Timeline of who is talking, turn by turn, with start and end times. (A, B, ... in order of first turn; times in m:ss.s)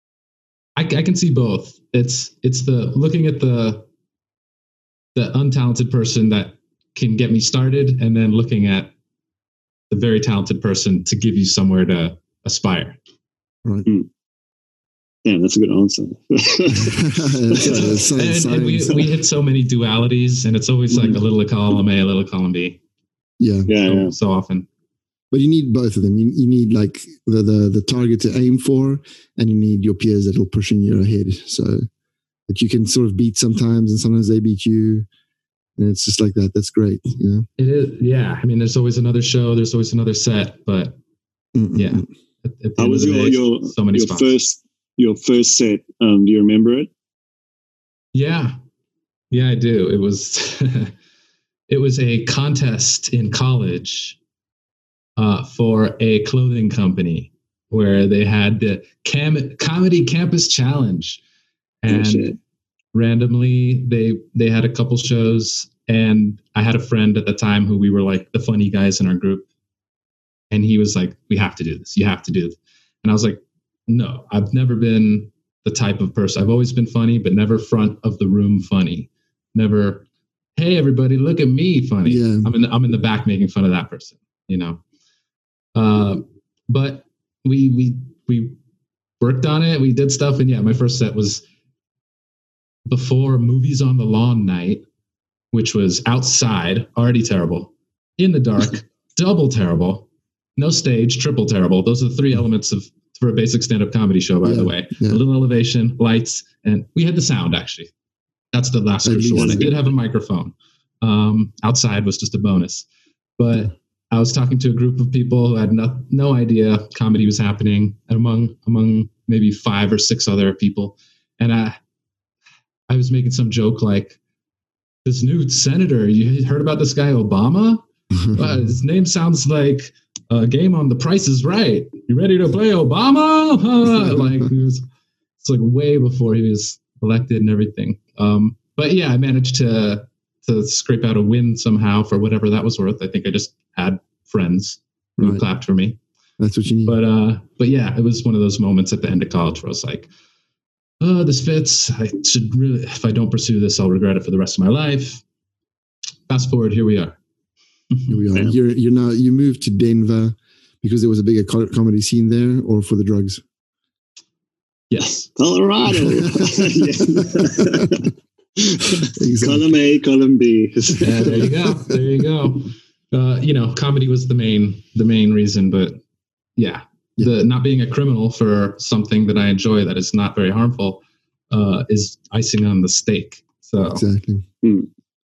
0:00.8-0:03.8 A
0:05.2-0:08.9 A
0:09.9-0:13.0 A
0:15.2-0:18.0 B
0:16.8-0:19.0 C
0:17.6-0:22.8 A
0:23.4-0:23.7 C
0:23.7-0:24.1 B
0:23.9-0:24.7 A
0:25.3-0:31.8 C
0:32.5-0:35.1 C
0:35.8-0:37.5 C
0:37.6-0:41.0 A
0:41.6-0:42.0 C
0:41.8-0:44.3 A
0:42.8-0:46.9 B
0:48.1-0:48.5 A
0:49.3-0:50.9 A
0:51.7-0:54.2 A
0:55.2-1:01.2 A
1:01.8-1:02.3 A
1:01.9-1:02.4 B
1:02.9-1:09.5 A
1:10.5-1:20.1 A
1:20.6-1:24.8 A
1:22.0-1:22.5 C
1:25.8-1:28.6 A
1:29.2-1:31.4 A
1:32.9-1:34.8 A
1:35.5-1:47.9 A
1:44.4-1:45.2 C
1:48.5-1:52.9 A
1:49.0-1:49.7 C
1:49.4-1:49.8 B
1:53.4-2:01.8 A
2:02.9-2:04.2 A
2:05.0-2:14.8 A
2:08.2-2:08.6 C
2:14.0-2:14.5 C
2:15.4-2:26.0 A
2:25.2-2:25.4 C
2:26.4-2:27.0 C
2:26.9-2:30.1 A
2:31.0-2:35.2 A
2:36.3-2:37.2 A
2:37.9-2:38.2 A
2:38.1-2:43.4 C
2:44.9-2:45.3 A
2:45.2-2:51.5 B
2:46.1-2:48.0 C
2:49.0-2:49.7 C
2:51.0-2:56.0 A
2:51.2-2:52.0 C
2:56.6-3:04.0 A
3:03.9-3:04.4 C
3:04.6-3:04.9 B